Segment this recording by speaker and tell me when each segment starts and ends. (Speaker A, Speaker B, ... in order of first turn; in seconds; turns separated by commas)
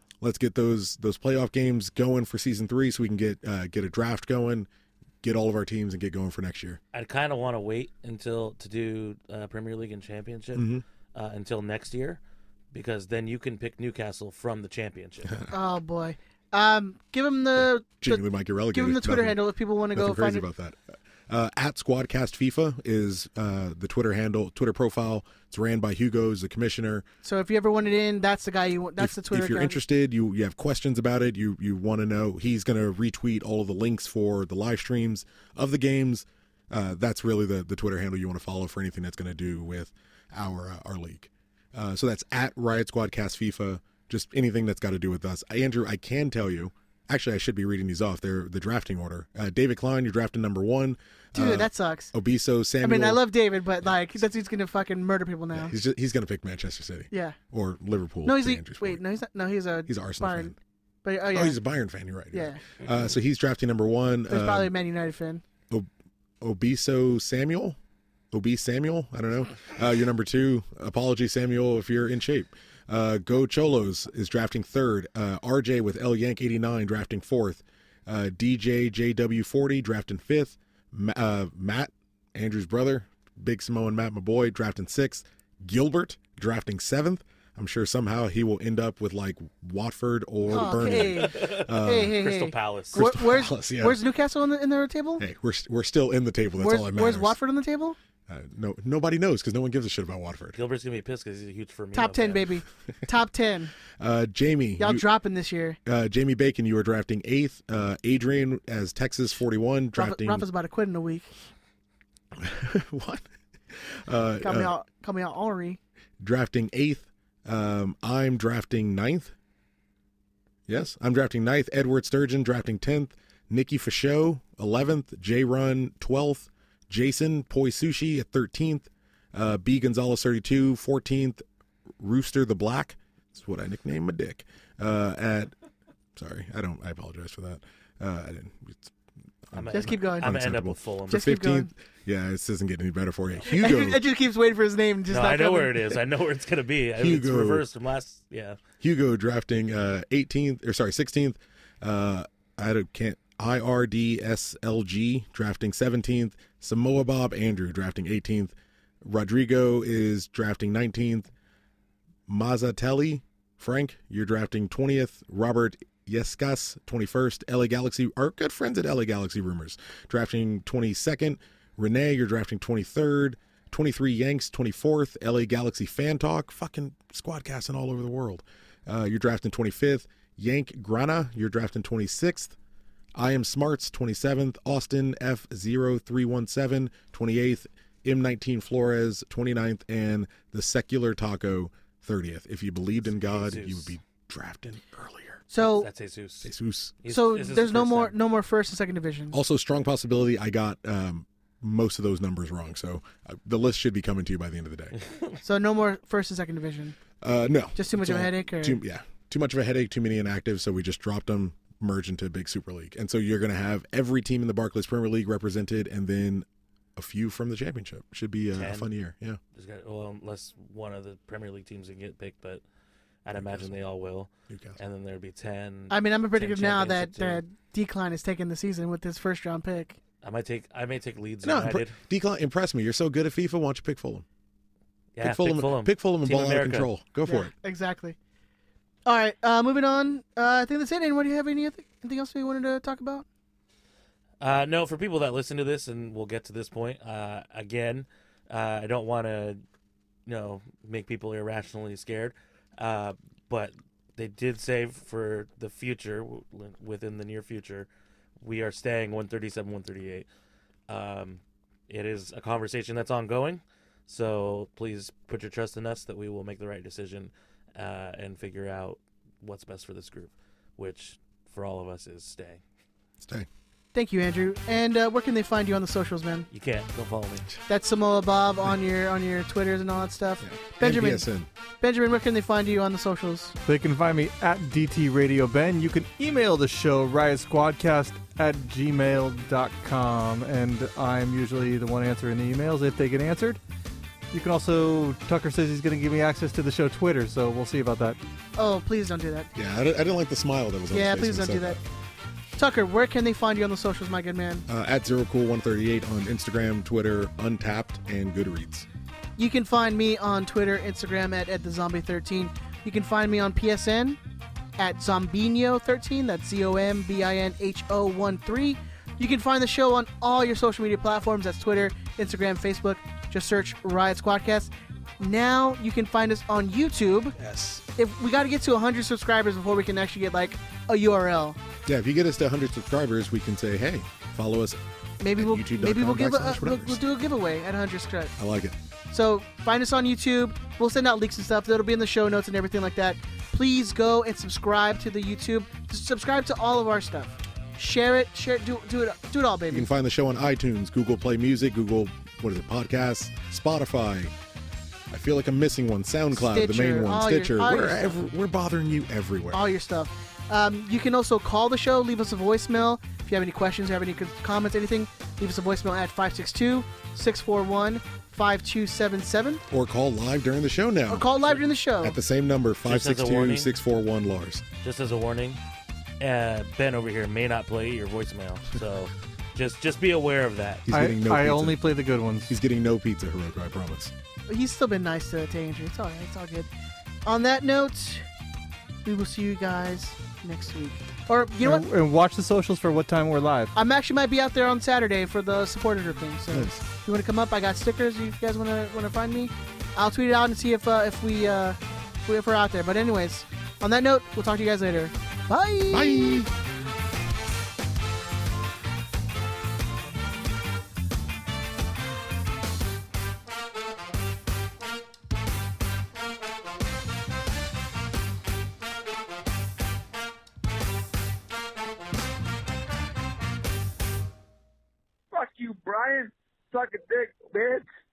Speaker A: 0.2-4.7, Speaker A: 5.2-6.8, Speaker B: 6.9-12.2, Speaker A: 10.5-10.8, Speaker B: 12.7-15.4, Speaker A: 15.2-15.5, Speaker C: 15.5-20.4, Speaker A: 17.6-19.4, Speaker A: 19.9-27.1, Speaker C: 27.2-29.8, Speaker A: 29.0-53.2, Speaker C: 51.3-52.1, Speaker C: 52.8-55.7, Speaker A: 55.5-59.0, Speaker C: 57.1-57.4, Speaker C: 58.2-61.6, Speaker A: 59.9-60.5, Speaker A: 61.3-64.7, Speaker C: 62.3-62.6, Speaker C: 64.3-65.4, Speaker A: 66.4-67.8, Speaker A: 68.3-92.2, Speaker C: 90.5-95.2, Speaker B: 90.6-93.1, Speaker A: 92.9-94.0, Speaker A: 95.2-97.4, Speaker C: 96.6-98.0, Speaker A: 98.3-100.6, Speaker B: 100.5-102.5, Speaker C: 101.9-103.7, Speaker A: 104.0-105.1, Speaker C: 104.8-105.8, Speaker A: 105.8-110.5, Speaker C: 110.0-111.3, Speaker A: 112.3-114.7, Speaker C: 114.4-115.8, Speaker A: 116.2-119.3, Speaker A: 120.7-131.4, Speaker A: 132.0-135.5, Speaker A: 136.2-138.9, Speaker A: 139.5-144.0, Speaker B: 139.5-141.2, Speaker C: 139.7-140.3, Speaker C: 141.1-141.7, Speaker C: 143.5-145.9, Speaker B: 145.1-148.6, Speaker A: 147.0-147.7, Speaker A: 148.8-161.3, Speaker A: 162.3-182.6, Speaker A: 183.1-195.4, Speaker B: 193.0-193.9, Speaker C: 195.5-195.9, Speaker B: 195.6-198.1, Speaker A: 196.4-197.0, Speaker C: 197.1-199.4, Speaker A: 199.3-204.9, Speaker B: 205.0-205.4, Speaker C: 205.4-207.0, Speaker A: 207.2-219.4, Speaker C: 207.7-208.8, Speaker B: 218.5-218.9, Speaker B: 219.5-222.6, Speaker B: 223.2-227.4, Speaker A: 223.3-223.8, Speaker A: 224.5-224.8, Speaker C: 225.9-230.0, Speaker B: 230.2-231.9, Speaker A: 231.4-234.2, Speaker B: 235.2-236.9, Speaker A: 235.2-237.5, Speaker C: 237.2-238.2, Speaker C: 239.0-243.2, Speaker B: 244.4-249.6, Speaker B: 250.2-257.9, Speaker B: 258.4-260.3, Speaker B: 260.9-272.6, Speaker A: 273.2-273.5, Speaker C: 273.9-276.5, Speaker B: 276.5-277.5, Speaker C: 277.7-281.2, Speaker A: 280.4-281.5, Speaker C: 281.8-283.6, Speaker D: 283.6-293.6, Speaker D: 294.3-298.2, Speaker C: 298.6-299.5, Speaker A: 299.6-301.8, Speaker C: 300.9-301.8, Speaker C: 302.6-304.7, Speaker A: 304.7-308.9, Speaker C: 309.4-314.2, Speaker C: 314.8-327.4, Speaker A: 327.4-327.8, Speaker C: 327.9-331.6, Speaker A: 331.8-334.8, Speaker C: 335.2-338.3, Speaker A: 335.3-337.0, Speaker A: 338.4-338.7, Speaker C: 339.1-349.9, Speaker A: 349.7-354.3, Speaker A: 355.1-359.7, Speaker C: 356.3-358.2, Speaker C: 359.5-369.6, Speaker A: 369.7-371.3, Speaker C: 371.1-372.2, Speaker A: 372.0-374.6, Speaker B: 372.8-373.7, Speaker B: 374.8-375.6, Speaker B: 376.2-380.8, Speaker A: 380.9-381.8, Speaker D: 380.9-382.5, Speaker A: 382.5-384.1, Speaker C: 384.5-386.7, Speaker C: 387.2-388.2, Speaker C: 389.0-391.8, Speaker D: 391.6-393.7, Speaker C: 393.7-406.4, Speaker A: 396.5-396.8, Speaker A: 405.9-406.5, Speaker E: 425.3-427.9